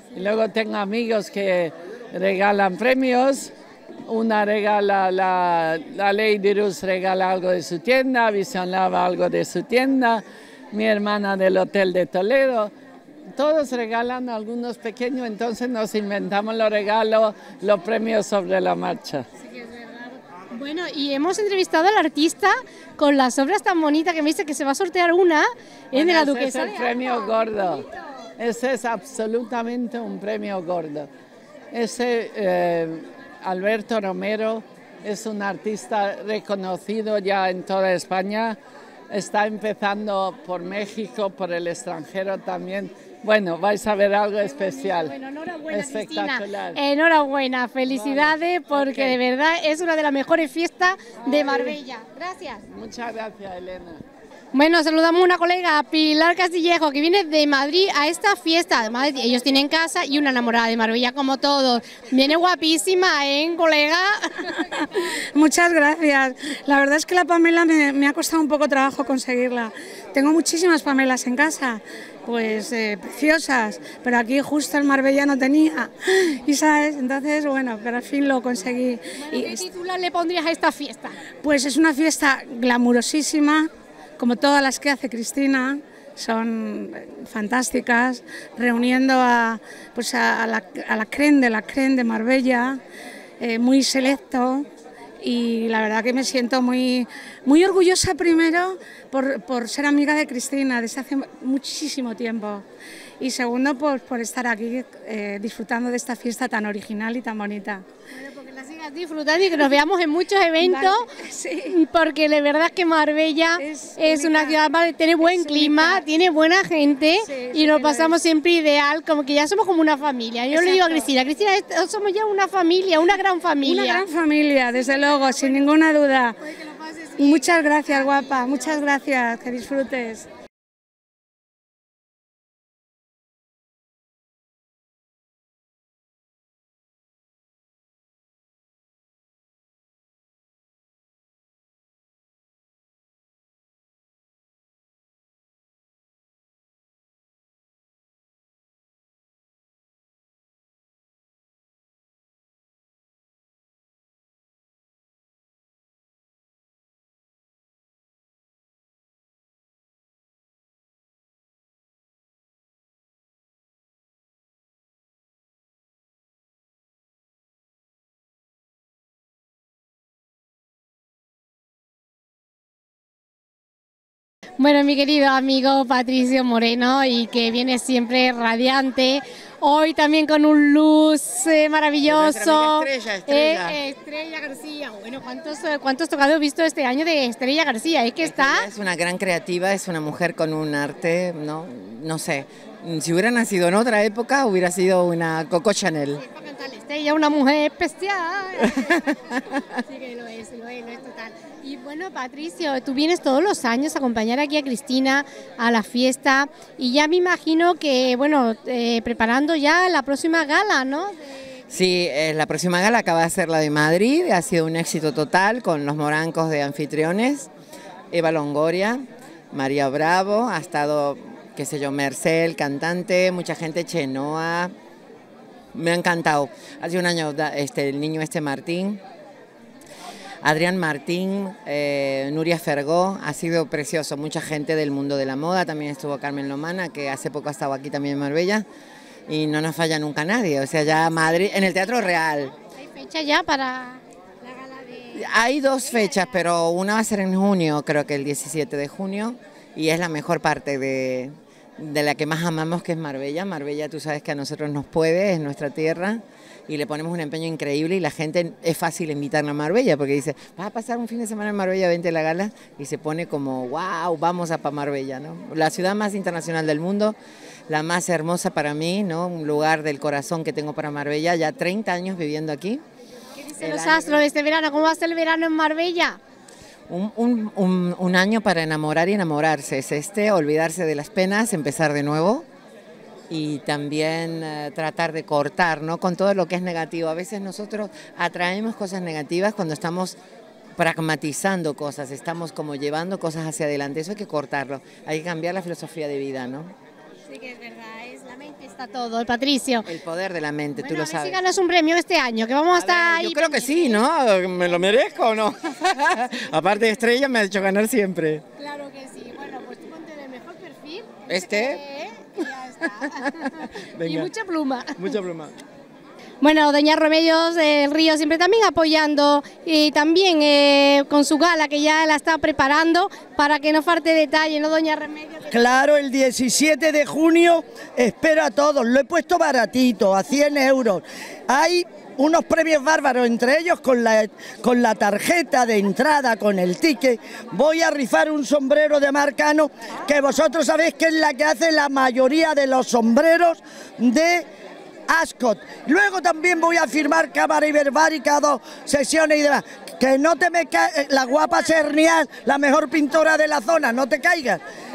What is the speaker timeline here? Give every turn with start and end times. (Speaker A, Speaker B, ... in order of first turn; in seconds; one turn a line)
Speaker A: 0.1-3.5
Speaker A: 4.1-12.7
Speaker A: 13.3-19.2
Speaker B: 19.5-27.2
Speaker A: 25.9-27.9
Speaker A: 28.4-31.1
Speaker A: 31.7-38.6
Speaker A: 39.1-45.1
Speaker B: 44.5-52.6
Speaker A: 45.7-46.8
Speaker A: 47.9-49.2
Speaker A: 51.2-51.8
Speaker A: 52.7-54.0
Speaker B: 54.5-64.5
Speaker C: 65.3-79.6
Speaker B: 79.2-81.2
Speaker C: 81.4-92.8
Speaker C: 93.4-94.7
Speaker C: 95.2-102.7
Speaker C: 103.2-107.8
Speaker B: 108.1-111.1
Speaker C: 110.6-111.8
Speaker B: 111.7-124.1
Speaker C: 113.6-114.6
Speaker C: 115.2-116.0
Speaker C: 117.3-118.1
Speaker C: 120.5-121.1
Speaker C: 123.6-126.5
Speaker C: 127.2-130.3
Speaker B: 174.6-188.7
Speaker D: 182.1-183.8
Speaker D: 188.2-196.2
Speaker B: 196.2-211.2
Speaker D: 211.7-217.5
Speaker D: 218.1-224.7
Speaker D: 225.7-229.0
Speaker D: 230.4-238.7
Speaker D: 239.3-242.5
Speaker B: 242.7-245.2
Speaker D: 245.2-267.2
Speaker D: 267.7-272.8
Speaker B: 273.4-276.2
Speaker D: 273.6-274.3
Speaker D: 276.9-282.5
Speaker D: 283.3-290.2
Speaker D: 290.8-296.7
Speaker B: 297.3-299.9
Speaker D: 299.9-301.4
Speaker B: 300.8-304.0
Speaker D: 302.8-308.4
Speaker B: 308.6-315.2
Speaker B: 316.4-325.6
Speaker E: 325.5-344.5
Speaker E: 345.1-354.6